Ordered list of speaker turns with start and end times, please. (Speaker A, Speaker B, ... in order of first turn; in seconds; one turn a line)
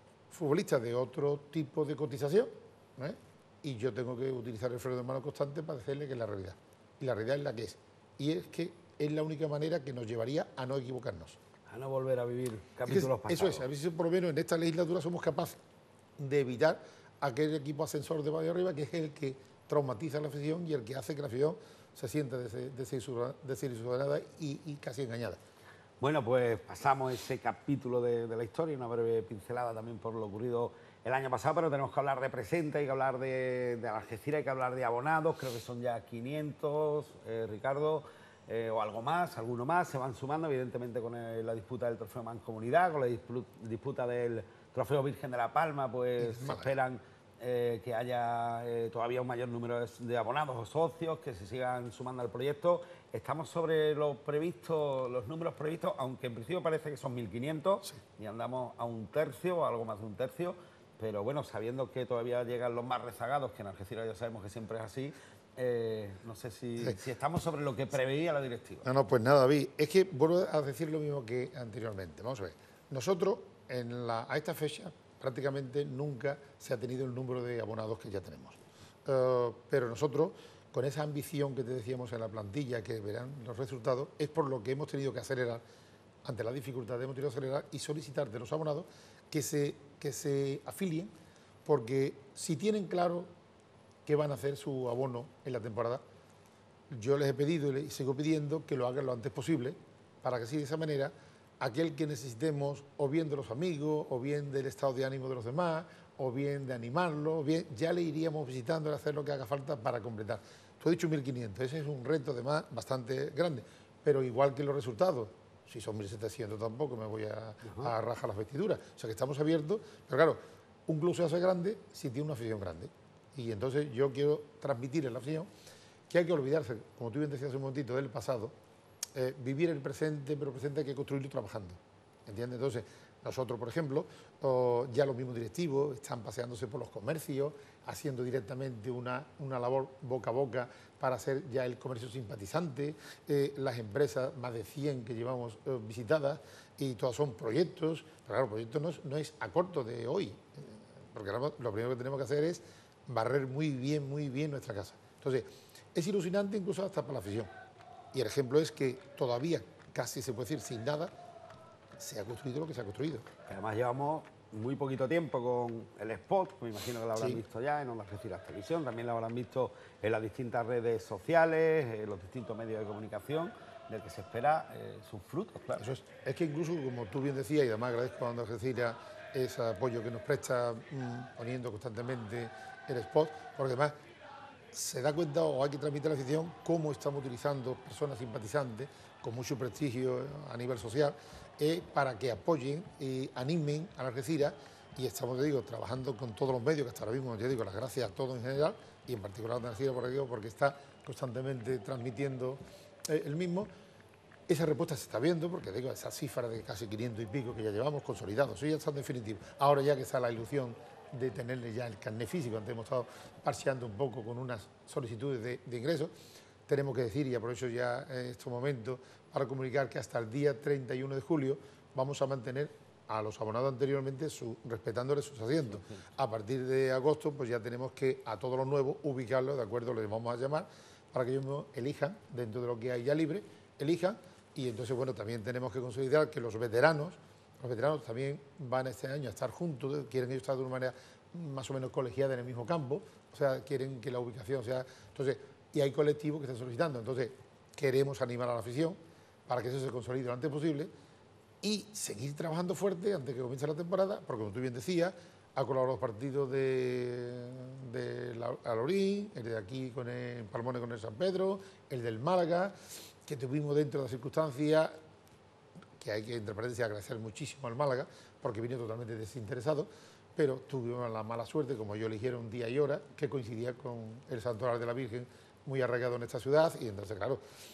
Speaker A: 0.3-11.4
Speaker B: 11.7-13.7
Speaker A: 12.8-15.6
Speaker A: 16.2-25.4
Speaker B: 26.0-68.8
Speaker A: 46.2-46.7
Speaker A: 68.8-85.6
Speaker A: 86.2-91.1
Speaker A: 91.6-93.3
Speaker A: 94.0-96.0
Speaker A: 96.9-125.5
Speaker B: 117.6-117.9
Speaker A: 126.1-128.5
Speaker A: 129.1-157.5
Speaker A: 158.1-161.1
Speaker A: 161.9-163.2
Speaker B: 163.5-175.9
Speaker A: 167.2-167.4
Speaker A: 175.8-183.9
Speaker A: 184.7-203.7
Speaker A: 204.5-216.1
Speaker A: 216.7-250.9
Speaker B: 225.6-226.1
Speaker A: 251.6-264.9
Speaker A: 266.0-277.4